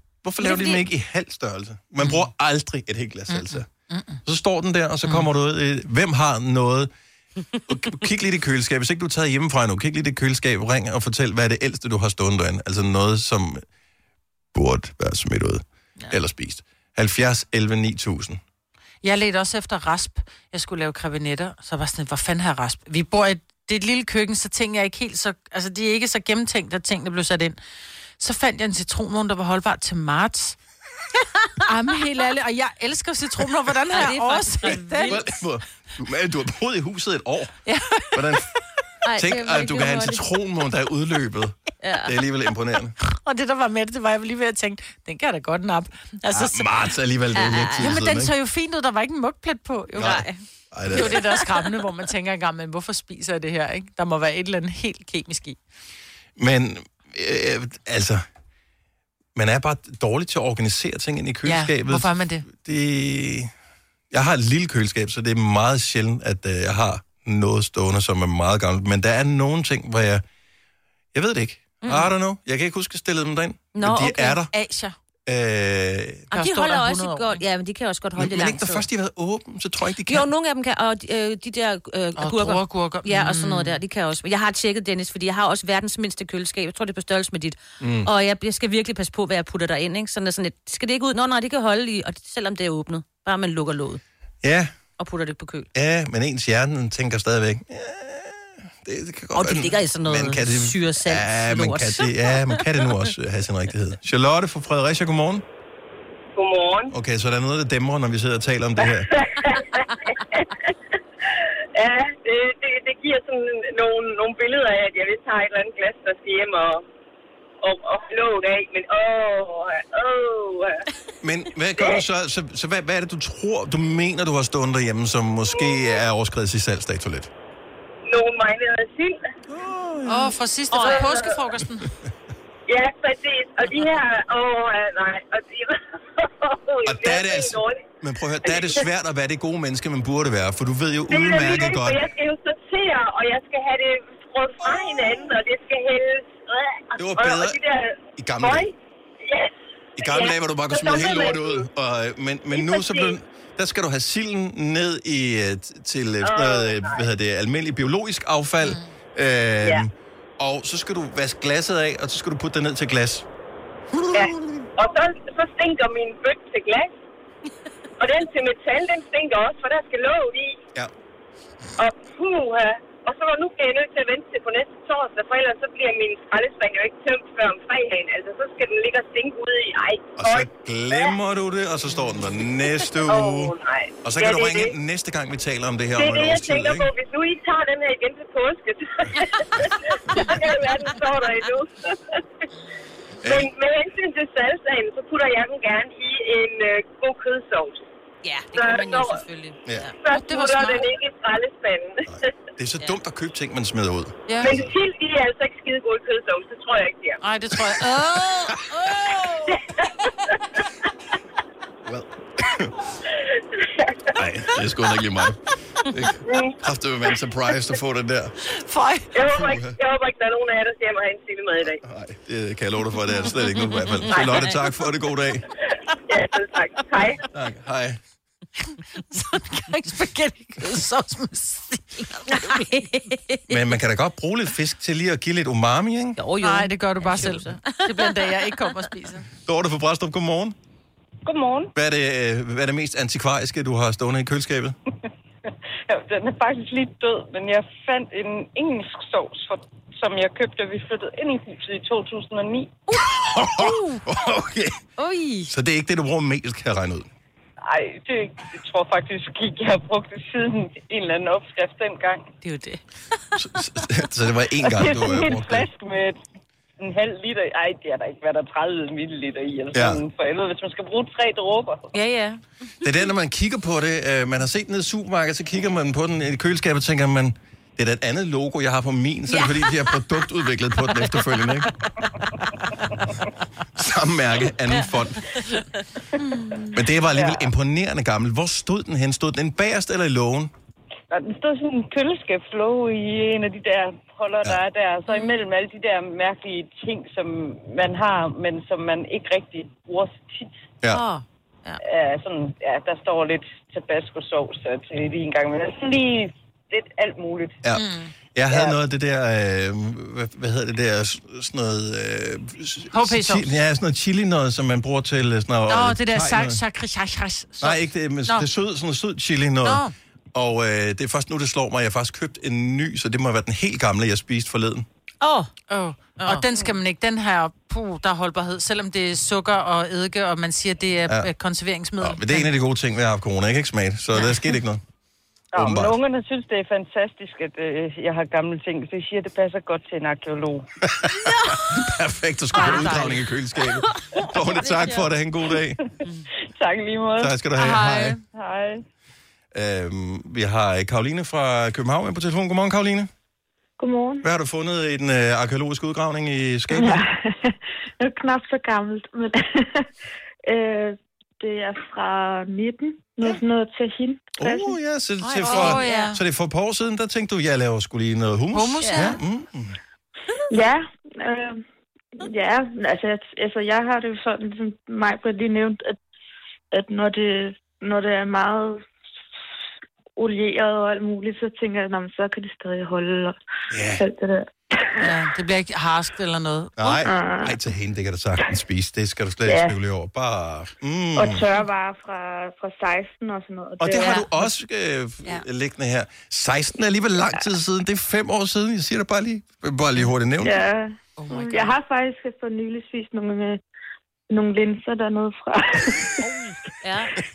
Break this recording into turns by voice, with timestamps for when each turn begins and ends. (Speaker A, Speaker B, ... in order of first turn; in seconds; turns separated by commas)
Speaker A: 0.2-3.6, Speaker B: 0.4-0.8, Speaker C: 3.3-4.2, Speaker A: 4.2-6.9, Speaker A: 7.7-13.6, Speaker A: 14.5-18.4, Speaker C: 19.0-27.6, Speaker C: 28.2-30.6, Speaker C: 31.6-35.2, Speaker B: 33.9-35.2, Speaker A: 35.0-37.5, Speaker C: 37.6-38.4, Speaker A: 38.1-38.5, Speaker B: 39.0-40.2, Speaker A: 39.1-42.9, Speaker B: 41.8-42.1, Speaker C: 43.0-46.7, Speaker A: 46.3-48.3, Speaker B: 47.3-47.9, Speaker C: 47.8-50.2, Speaker A: 50.0-51.2, Speaker B: 50.0-50.4, Speaker C: 50.9-55.6, Speaker B: 51.0-51.3, Speaker A: 56.4-58.2, Speaker A: 59.3-63.5, Speaker C: 61.4-62.5, Speaker A: 64.1-70.2, Speaker A: 71.1-74.5, Speaker B: 71.8-72.1, Speaker B: 73.7-74.3, Speaker C: 74.5-74.9, Speaker A: 75.3-76.3, Speaker C: 76.3-77.4, Speaker B: 76.3-78.8, Speaker A: 78.2-80.3, Speaker B: 80.1-94.0, Speaker C: 82.2-83.8, Speaker A: 87.8-88.1, Speaker A: 94.4-94.7, Speaker B: 95.0-95.7, Speaker A: 95.7-105.4, Speaker B: 99.3-102.8, Speaker D: 106.3-106.9, Speaker A: 106.9-109.1, Speaker D: 111.8-116.8, Speaker D: 117.6-120.7, Speaker A: 121.2-127.3, Speaker D: 128.1-129.2, Speaker A: 129.5-130.3, Speaker C: 130.0-131.9, Speaker B: 130.7-131.1, Speaker D: 130.9-131.3, Speaker A: 131.6-132.1, Speaker D: 132.7-137.8, Speaker A: 136.8-142.1, Speaker D: 141.1-148.7, Speaker A: 146.9-147.6, Speaker A: 148.2-148.7, Speaker D: 149.2-151.6, Speaker A: 149.9-163.3, Speaker D: 152.5-153.1, Speaker D: 156.2-156.8, Speaker A: 163.9-164.6, Speaker D: 164.1-166.9, Speaker D: 168.0-170.6, Speaker D: 171.8-180.4, Speaker A: 180.2-186.9, Speaker D: 183.1-184.7, Speaker D: 186.0-189.0, Speaker D: 190.2-191.8, Speaker A: 193.2-193.5, Speaker D: 193.2-197.8, Speaker B: 198.2-200.0, Speaker D: 198.5-199.2, Speaker D: 200.0-202.1, Speaker C: 200.1-200.9, Speaker A: 202.1-204.7, Speaker C: 204.3-204.6, Speaker D: 204.4-207.2, Speaker C: 207.2-208.7, Speaker B: 208.8-209.5, Speaker A: 211.8-212.7, Speaker A: 214.1-218.3, Speaker C: 218.5-219.2, Speaker D: 219.1-221.8, Speaker A: 219.3-219.8, Speaker A: 221.6-225.4, Speaker B: 223.6-224.3, Speaker D: 226.1-227.2, Speaker A: 227.3-228.0, Speaker C: 229.1-232.6, Speaker B: 232.2-233.6, Speaker A: 233.5-236.2, Speaker B: 236.2-238.7, Speaker C: 236.4-239.3, Speaker A: 239.4-240.5, Speaker E: 241.2-241.7, Speaker A: 241.7-244.7, Speaker E: 245.9-252.8, Speaker A: 253.0-254.7, Speaker C: 253.6-254.0, Speaker B: 255.0-255.5, Speaker A: 255.5-257.1, Speaker E: 257.7-262.3, Speaker B: 262.4-262.8, Speaker A: 263.4-265.7, Speaker E: 264.6-266.2, Speaker E: 266.8-271.9, Speaker A: 269.7-270.0, Speaker B: 271.9-272.4, Speaker A: 272.8-281.7, Speaker B: 279.3-279.7, Speaker A: 283.8-285.2, Speaker B: 285.4-285.6, Speaker A: 286.7-290.5, Speaker E: 287.1-287.5, Speaker E: 291.1-300.5, Speaker B: 295.1-295.4, Speaker B: 300.9-301.8, Speaker E: 301.8-307.6, Speaker A: 307.6-316.6, Speaker C: 307.8-308.1, Speaker E: 308.5-308.8, Speaker C: 312.9-313.6, Speaker C: 315.7-318.4, Speaker A: 317.6-319.8, Speaker C: 319.6-319.9, Speaker A: 320.3-324.9, Speaker B: 325.2-325.5, Speaker C: 325.7-332.5, Speaker B: 326.2-326.7, Speaker A: 332.0-334.8, Speaker E: 335.5-340.7, Speaker A: 335.5-336.0, Speaker A: 340.9-345.8, Speaker C: 342.5-343.2, Speaker B: 344.5-345.1, Speaker E: 346.6-347.3, Speaker A: 347.2-348.2, Speaker C: 347.6-348.2, Speaker E: 348.3-348.8, Speaker A: 349.5-353.1, Speaker F: 353.8-354.2, Speaker A: 354.2-357.0, Speaker F: 356.7-359.9, Speaker F: 360.5-364.8, Speaker A: 364.4-369.8, Speaker B: 365.2-366.1, Speaker C: 365.4-366.2, Speaker C: 368.5-369.2, Speaker B: 368.8-369.1, Speaker F: 370.5-371.6, Speaker F: 372.2-376.0, Speaker F: 376.7-378.8, Speaker F: 380.2-383.4, Speaker A: 383.7-384.0, Speaker F: 384.0-385.1, Speaker C: 385.0-387.0, Speaker A: 386.8-391.5, Speaker F: 387.0-387.6, Speaker F: 389.4-389.8, Speaker F: 391.1-394.2, Speaker A: 393.8-400.6, Speaker F: 400.4-403.6, Speaker C: 401.2-401.6, Speaker F: 404.3-406.2, Speaker B: 406.8-407.1